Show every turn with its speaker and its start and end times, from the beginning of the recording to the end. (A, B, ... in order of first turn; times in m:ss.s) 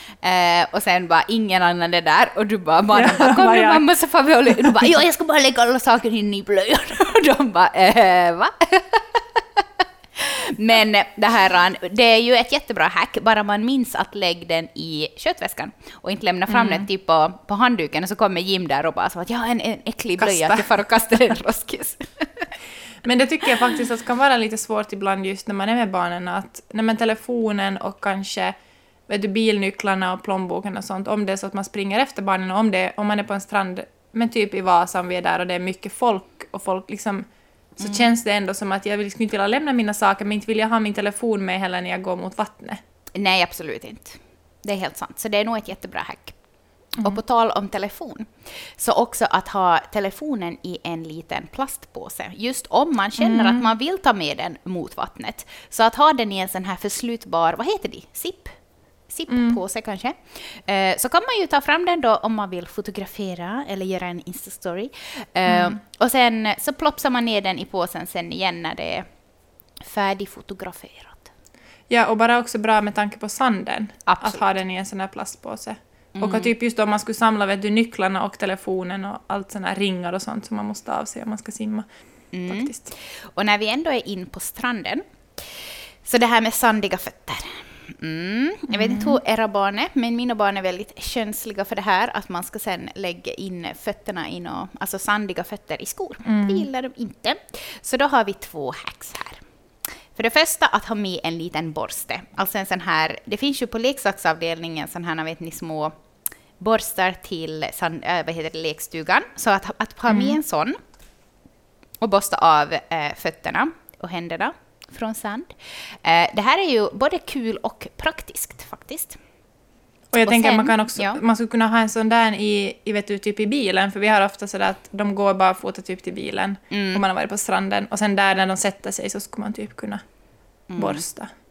0:00.2-0:09.6 A
0:02.9-0:03.8 B
0:04.5-0:04.9 B
0:10.2-0:22.5 A
0:16.5-0:16.9 B
0:20.2-0:20.7 B
0:23.0-0:28.5 B
0:29.1-0:37.2 B
0:37.8-0:42.8 B
0:37.8-0:38.1 A
0:43.2-0:46.4 A
0:47.0-0:58.6 A
0:53.2-0:53.6 B
0:59.1-1:09.0 A
0:59.3-0:59.6 B
1:05.5-1:05.8 B
1:09.9-1:11.3 A
1:11.9-1:21.8 B
1:14.1-1:14.4 A
1:16.2-1:16.5 A
1:22.3-1:39.4 A
1:22.5-1:22.9 B
1:28.7-1:29.2 B
1:36.2-1:36.7 B
1:40.1-1:45.9 A
1:46.6-1:50.8 A
1:50.1-1:50.4 B
1:52.0-1:59.2 A
2:00.1-2:10.0 B
2:00.2-2:01.2 A
2:06.7-2:07.0 A
2:10.7-2:11.1 A
2:10.8-2:11.3 B